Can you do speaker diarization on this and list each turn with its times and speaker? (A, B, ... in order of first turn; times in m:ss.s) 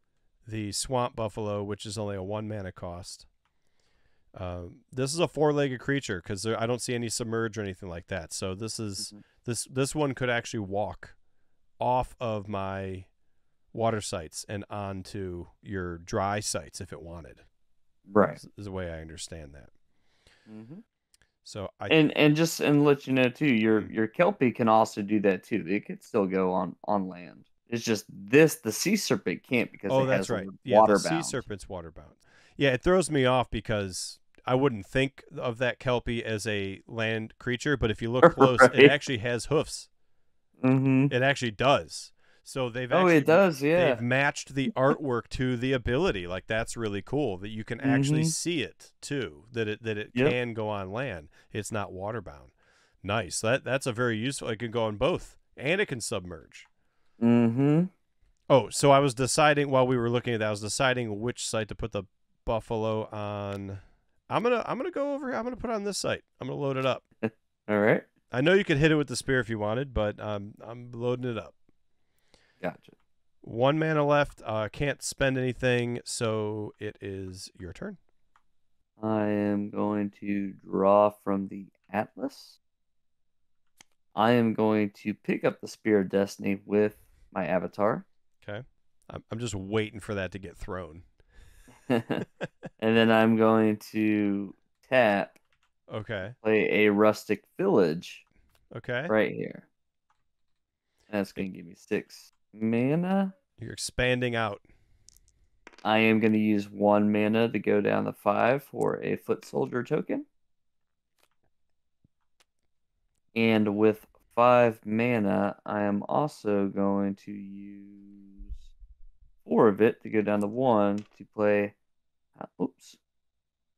0:00.5-0:03.3 A
0:04.3-0:11.2 A
0:11.8-0:13.1 A
0:13.7-0:17.4 A
0:18.1-0:18.4 B
0:18.3-0:19.7 A
0:20.5-0:20.8 B
0:21.4-0:22.0 A
0:21.9-0:31.4 B
0:29.9-0:39.9 A
0:38.2-0:39.0 B
0:40.6-0:41.1 B
0:41.1-0:52.5 A
0:42.9-0:44.0 B
0:47.8-0:48.3 B
0:53.0-0:56.7 A
0:57.2-0:57.9 B
0:58.5-1:07.0 A
1:07.2-1:08.1 B
1:08.3-1:11.6 A
1:12.6-1:12.9 B
1:13.4-1:18.0 A
1:19.0-1:22.6 B
1:24.2-1:28.1 B
1:28.4-1:31.0 A
1:31.9-1:32.2 B
1:32.8-1:35.4 B
1:35.9-1:36.4 A
1:36.4-1:38.2 B
1:38.7-1:39.1 A
1:39.1-1:39.6 B
1:41.1-1:43.4 B
1:43.6-1:44.6 A
1:45.8-1:50.2 B
1:53.4-1:58.6 B
1:59.4-2:01.8 B
2:02.4-2:03.0 B